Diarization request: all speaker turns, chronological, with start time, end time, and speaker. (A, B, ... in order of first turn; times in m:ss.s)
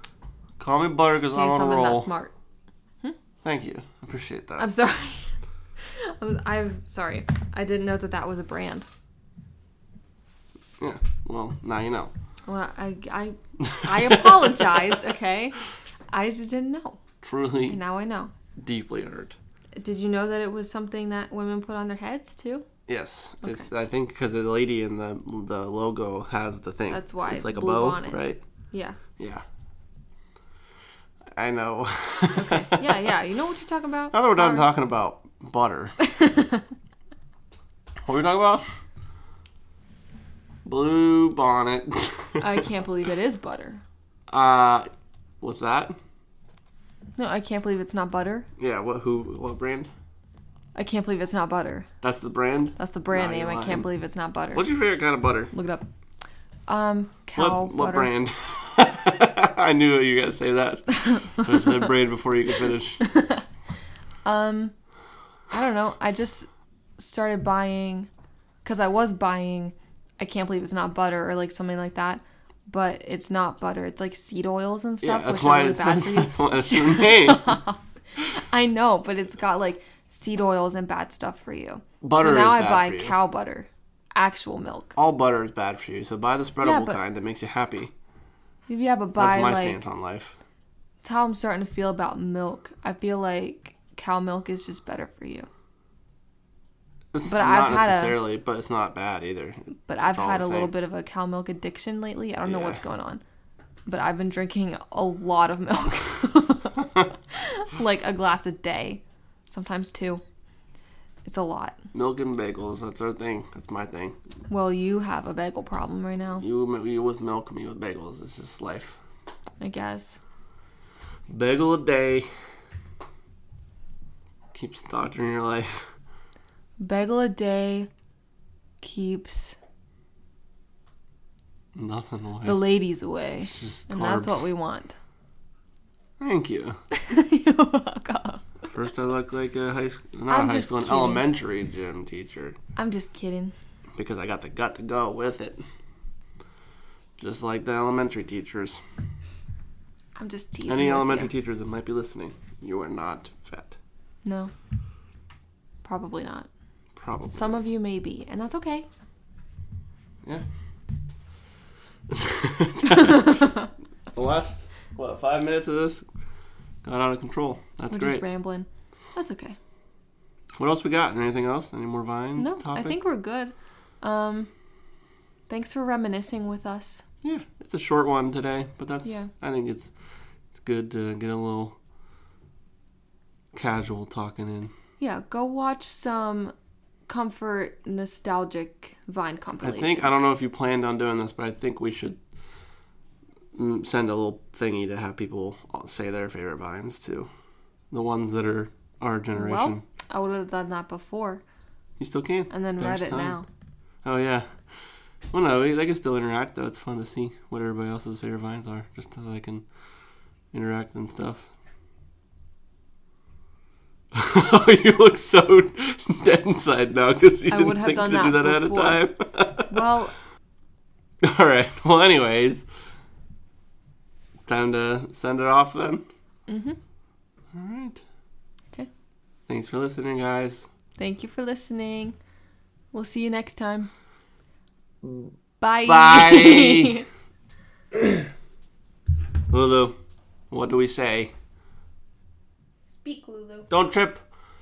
0:00.6-0:02.1 A
0:01.3-0:02.3 B
0:03.4-0:04.7 A
0:04.6-0:05.3 B
0:05.8-0:08.9 B
0:10.8-0:12.1 A
0:12.5-0:15.6 B
0:13.6-0:14.1 A
0:16.1-0:17.0 B
0:17.2-0:17.8 A
0:17.7-0:18.3 B
0:18.6-0:19.4 A
0:19.8-0:22.7 B
0:22.9-0:28.4 A
0:26.9-0:29.0 B
0:29.2-0:29.4 A
0:31.4-0:32.9 A
0:32.4-0:34.7 B
0:34.1-0:36.0 A
0:36.0-0:36.6 B
0:38.0-0:38.6 A
0:40.6-0:42.6 A
0:42.4-0:43.8 B
0:44.3-0:44.9 A
0:45.4-0:46.0 A
0:47.2-0:48.5 B
0:48.6-0:49.9 A
0:50.8-0:51.9 B
0:52.0-0:53.9 A
0:52.8-0:54.7 B
0:54.5-0:55.5 A
0:55.5-0:55.9 B
0:56.7-0:58.1 B
0:57.4-1:03.0 A
1:03.0-1:03.4 B
1:04.2-1:04.7 B
1:05.5-1:08.1 B
1:08.6-1:17.8 B
1:15.0-1:17.6 A
1:18.3-1:25.0 B
1:22.0-1:23.2 A
1:25.0-1:27.9 A
1:26.6-1:27.0 B
1:28.7-1:29.8 B
1:29.2-1:30.4 A
1:31.0-1:35.5 B
1:37.1-1:40.7 A
1:37.3-1:38.2 B
1:39.9-1:43.2 B
1:42.4-1:42.8 A
1:43.9-1:50.2 B
1:51.2-1:51.8 B
1:51.9-1:54.2 A
1:54.5-1:56.4 B
1:56.4-1:59.0 A
1:59.6-2:00.2 B
2:01.3-2:02.3 A
2:04.5-2:05.9 A
2:06.8-2:07.9 B
2:08.8-2:09.6 B
2:11.8-2:12.6 A
2:12.4-2:15.0 B
2:13.4-2:14.5 A
2:16.2-2:16.8 A
2:16.9-2:18.4 B
2:18.7-2:22.6 A
2:20.3-2:21.3 B
2:22.8-2:23.5 B
2:24.0-2:25.6 A
2:27.2-2:28.8 A
2:30.2-2:31.3 B
2:30.7-2:33.8 A
2:34.2-2:34.5 B
2:35.8-2:36.5 B
2:37.0-2:37.5 A
2:37.3-2:38.9 B
2:42.1-2:43.5 A
2:42.9-2:43.7 B
2:44.1-2:46.0 A
2:46.8-2:48.2 A
2:47.9-2:49.6 B
2:50.5-2:53.0 A
2:52.4-2:54.5 B
2:55.5-2:57.0 B
2:57.2-2:59.9 A
3:00.6-3:01.8 A
3:03.5-3:04.7 A
3:05.0-3:06.5 B
3:07.1-3:10.2 B
3:09.6-3:12.2 A
3:13.6-3:17.3 A
3:17.9-3:19.8 A
3:19.4-3:21.4 B
3:22.0-3:23.4 A
3:22.5-3:23.5 B
3:24.0-3:24.5 A
3:25.3-3:29.6 A
3:30.5-3:31.5 A
3:34.1-3:39.8 A
3:37.5-3:39.1 B
3:39.7-3:40.1 B
3:41.2-3:42.6 A
3:44.4-3:46.0 A
3:46.5-3:46.8 B
3:47.5-3:48.0 A
3:49.5-3:50.7 A
3:51.0-3:52.2 B
3:52.9-3:53.9 B
3:55.0-3:55.3 A
3:55.6-3:57.1 B
3:55.8-3:57.0 A
3:58.0-3:58.2 A
3:59.5-3:59.9 A
4:00.5-4:01.3 A
4:02.9-4:03.7 B
4:03.7-4:04.2 A